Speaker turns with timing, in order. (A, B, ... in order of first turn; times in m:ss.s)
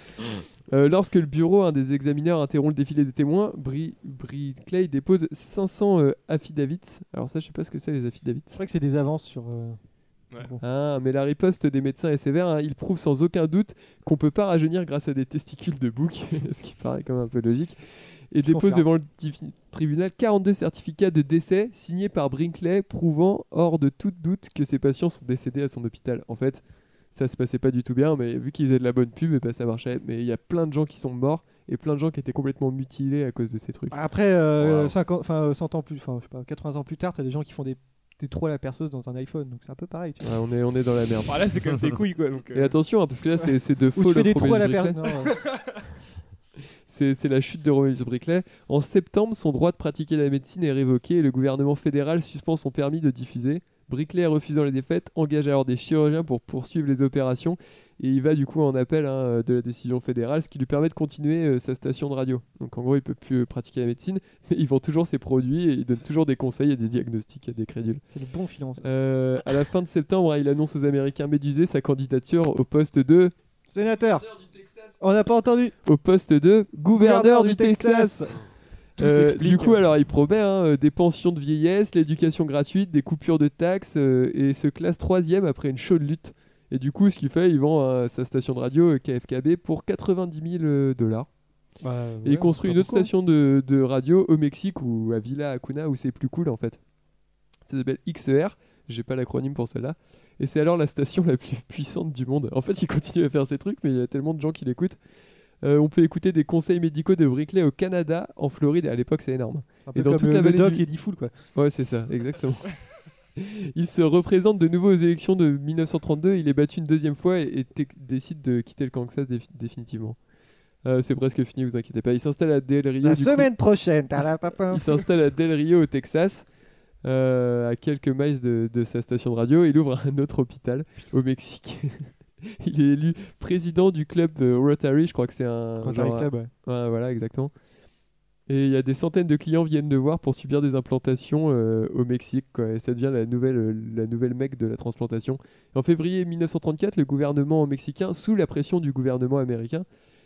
0:00.7-0:08.6 A
0:08.5-0:09.8 B
0:10.6-0:34.0 A
0:18.4-0:18.9 B
0:33.9-0:40.3 B
0:40.2-0:41.5 A
0:41.3-0:42.8 C
0:42.5-0:45.0 A
0:44.0-0:45.4 B
0:46.9-1:08.0 A
1:08.1-1:08.9 B
1:08.8-1:13.3 A
1:13.7-1:14.4 B
1:15.0-1:15.8 B
1:15.8-1:18.4 A
1:16.9-1:18.4 B
1:19.0-1:31.3 A
1:19.0-1:19.7 C
1:19.1-1:19.7 B
1:31.8-1:33.1 B
1:32.2-1:36.8 A
1:37.7-1:45.0 A
1:45.6-1:50.9 A
1:49.9-1:51.3 B
1:51.6-1:52.8 A
1:53.4-2:00.2 A
2:00.8-2:03.5 A
2:03.0-2:05.0 B
2:04.2-2:06.5 A
2:07.0-2:17.5 A
2:15.8-2:16.5 B
2:18.5-2:29.9 A